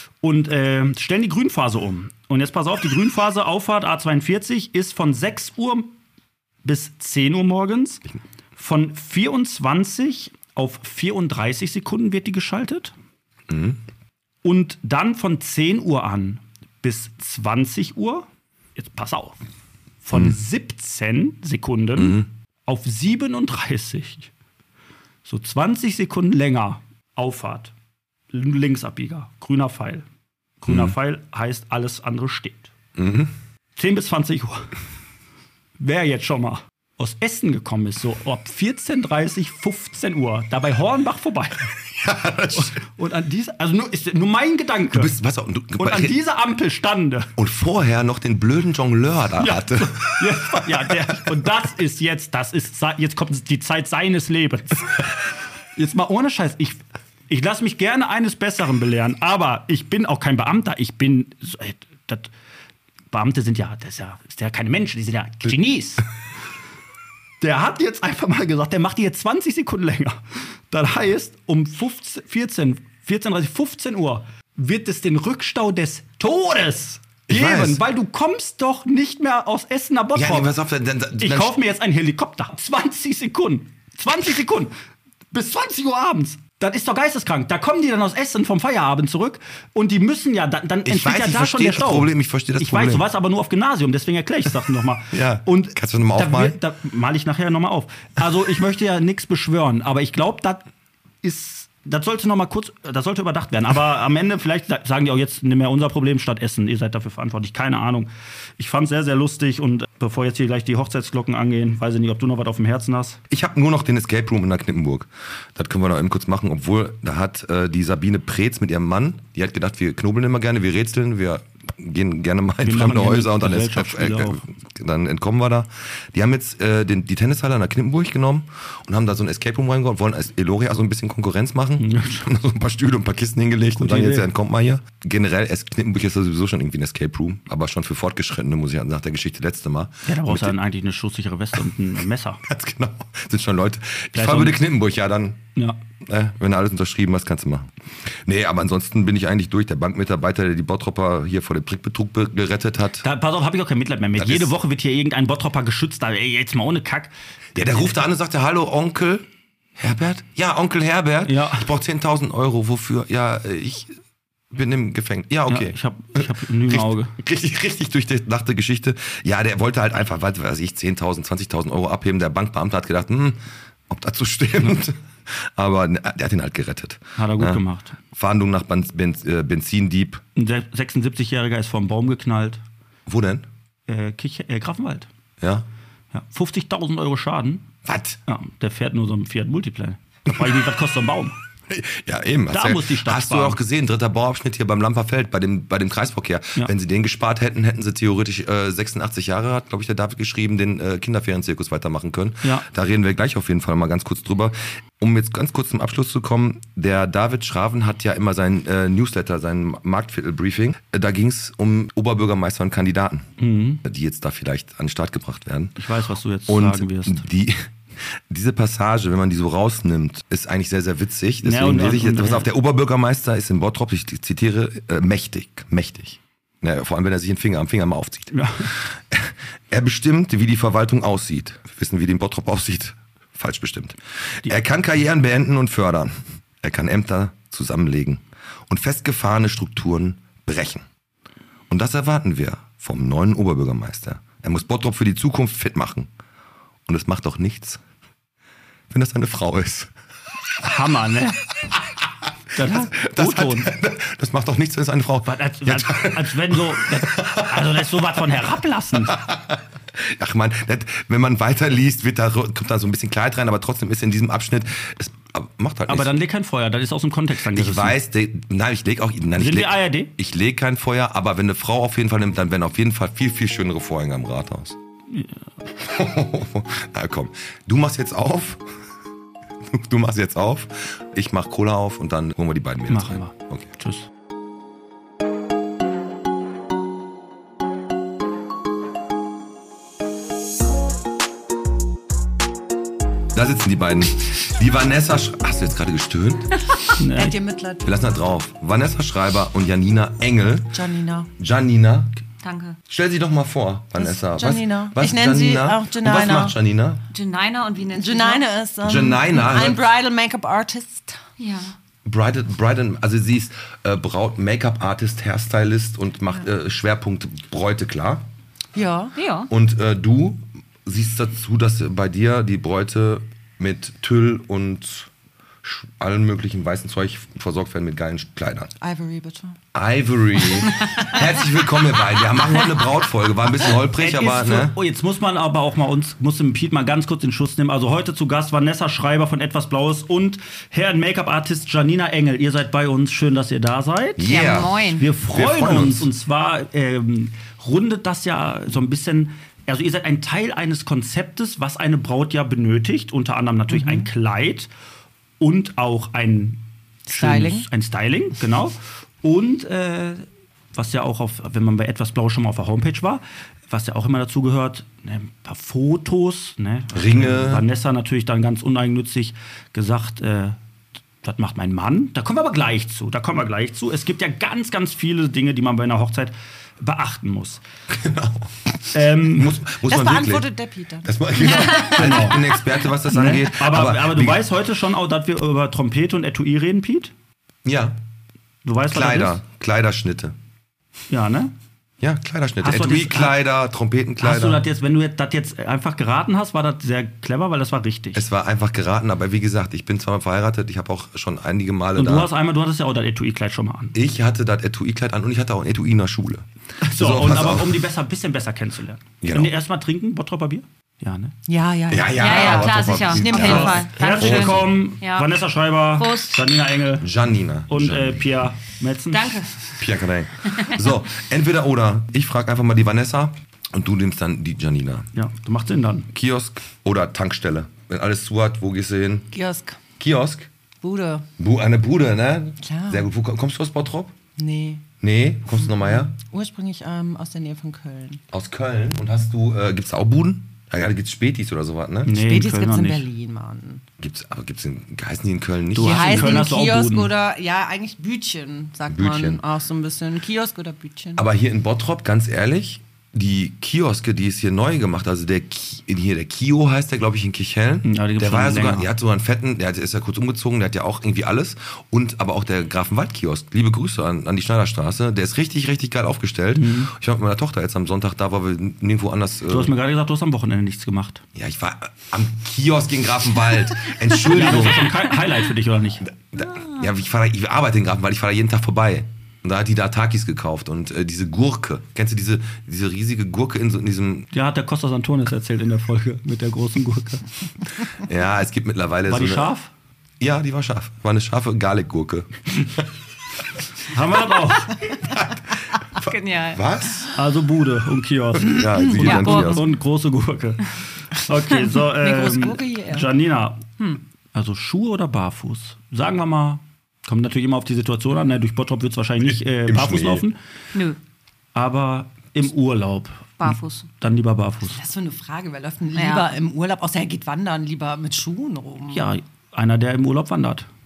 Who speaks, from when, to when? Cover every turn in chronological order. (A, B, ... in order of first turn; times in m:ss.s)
0:00.2-0:05.9 A
0:06.6-0:08.0 A
0:08.6-0:12.9 A
0:13.5-0:13.8 B
0:14.4-0:19.4 A
0:20.0-0:24.3 A
0:22.0-0:22.3 B
0:25.2-0:27.7 A
0:28.3-0:30.0 A
0:30.6-0:32.7 A
0:30.7-0:30.9 B
0:33.0-0:33.3 B
0:33.8-0:34.7 A
0:35.8-0:41.7 A
0:41.9-0:42.8 B
0:42.5-0:45.1 A
0:44.9-0:46.2 B
0:45.8-0:47.3 A
0:47.4-0:51.4 B
0:49.4-0:55.0 A
0:55.8-1:02.3 A
1:03.1-1:06.0 A
1:07.4-1:20.5 A
1:17.3-1:17.8 B
1:20.1-1:21.5 B
1:21.2-1:24.7 A
1:25.3-1:40.6 A
1:30.8-1:33.1 B
1:35.1-1:36.6 B
1:41.2-1:53.2 A
1:53.3-2:20.6 B
2:02.6-2:04.4 A
2:11.8-2:12.3 A
2:13.8-2:14.3 A
2:20.0-2:22.4 A
2:22.4-2:25.4 B
2:24.1-2:24.6 A
2:26.0-2:33.0 B
2:33.0-2:37.9 A
2:34.2-2:34.5 B
2:37.5-2:39.2 B
2:39.8-2:44.0 B
2:41.2-2:41.7 A
2:44.5-3:00.2 B
2:45.5-2:47.1 A
2:57.2-2:58.0 A
3:00.4-3:02.6 A
3:03.0-3:03.5 B
3:03.9-3:05.1 A
3:05.4-3:05.6 B
3:06.1-3:07.7 A
3:07.8-3:08.2 B
3:08.3-3:11.4 A
3:10.3-3:10.6 B
3:11.7-3:33.3 B
3:12.5-3:13.6 A
3:33.4-3:33.8 A
3:33.8-3:35.8 B
3:35.8-3:37.2 A
3:36.5-3:37.7 B
3:38.3-4:00.8 B
3:41.4-3:42.5 A
3:48.3-3:48.7 A
4:01.7-4:06.1 B
4:06.9-4:07.8 B
4:08.9-4:09.9 B
4:10.6-4:11.4 A
4:12.5-4:13.7 A
4:12.6-4:17.9 B
4:15.2-4:19.2 A
4:19.0-4:26.2 B
4:25.9-4:28.0 A
4:27.4-4:34.8 B
4:29.4-4:30.1 A
4:35.1-4:35.4 A
4:35.7-4:38.6 B
4:39.6-4:43.7 B
4:42.9-4:44.1 A
4:53.3-4:56.6 B
4:57.0-4:57.4 A
4:57.1-4:57.9 C
4:57.8-5:00.8 B
5:00.7-5:01.3 C
5:01.4-5:02.1 B
5:02.4-5:02.8 D
5:02.9-5:07.0 B
5:04.0-5:06.5 C
5:07.1-5:08.5 D
5:07.9-5:11.2 C
5:08.8-5:09.8 B
5:11.4-5:11.8 D
5:12.0-5:18.2 B
5:18.7-5:19.2 C
5:19.2-5:19.5 D
5:19.5-5:25.1 B
5:25.6-5:28.7 B
5:28.8-5:29.6 C
5:29.7-5:34.8 B
5:33.9-5:44.3 A
5:44.2-5:46.1 B
5:44.2-5:45.1 D
5:45.0-5:54.7 A
5:53.7-5:54.1 C
5:55.4-6:10.6 A
5:57.0-5:57.7 C
6:06.9-6:07.6 B
6:11.2-6:17.6 A
6:17.9-6:18.5 B
6:18.9-6:19.6 A
6:19.3-6:20.5 B
6:19.9-6:22.3 C
6:21.0-6:24.4 B
6:21.4-6:21.9 D
6:21.8-6:22.4 A
6:23.1-6:27.1 A
6:27.6-6:28.0 B
6:28.6-6:29.4 A
6:28.9-6:30.3 B
6:31.1-6:31.5 A
6:32.0-6:34.6 B
6:32.6-6:33.4 A
6:34.2-6:38.2 A
6:38.1-6:42.3 B
6:42.0-6:44.0 A
6:43.9-6:47.8 B
6:46.8-6:51.3 A
6:49.2-6:49.5 B
6:51.5-6:53.8 C
6:51.9-6:54.7 B
6:52.2-6:55.3 D
6:53.4-6:57.1 A
6:56.0-6:56.4 D
6:57.0-6:58.3 B
6:57.7-6:59.4 A
6:59.1-6:59.8 D
6:59.8-7:05.1 B
7:05.1-7:06.1 A
7:06.1-7:09.3 B
7:09.3-7:09.8 C
7:10.0-7:10.5 B
7:10.8-7:11.2 C
7:11.4-7:14.1 B
7:12.6-7:13.0 C
7:14.4-7:14.9 C
7:15.0-7:16.1 B
7:15.6-7:18.2 C
7:18.3-7:22.2 B
7:22.0-7:23.0 A
7:22.1-7:23.8 C
7:24.0-7:26.4 B
7:25.7-7:27.1 A
7:25.8-7:31.2 C
7:28.9-7:29.4 B
7:31.2-7:49.7 B
7:37.8-7:38.9 A
7:46.5-7:46.9 A
7:49.5-7:51.2 A
7:51.3-7:55.0 B
7:54.3-7:56.1 A
7:56.0-8:04.3 B
8:04.3-8:07.3 A
8:07.9-8:09.5 B
8:09.1-8:09.7 A
8:10.2-8:12.9 B
8:13.8-8:14.8 A
8:15.0-8:17.1 B
8:16.0-8:16.6 D
8:17.1-8:23.6 A
8:18.4-8:19.6 B
8:18.7-8:19.7 D
8:21.9-8:23.1 C
8:24.3-8:30.4 A
8:29.3-8:30.2 B
8:31.5-8:34.8 A
8:33.4-8:33.9 D
8:34.7-8:39.1 C
8:35.9-8:36.3 D
8:38.9-8:40.7 A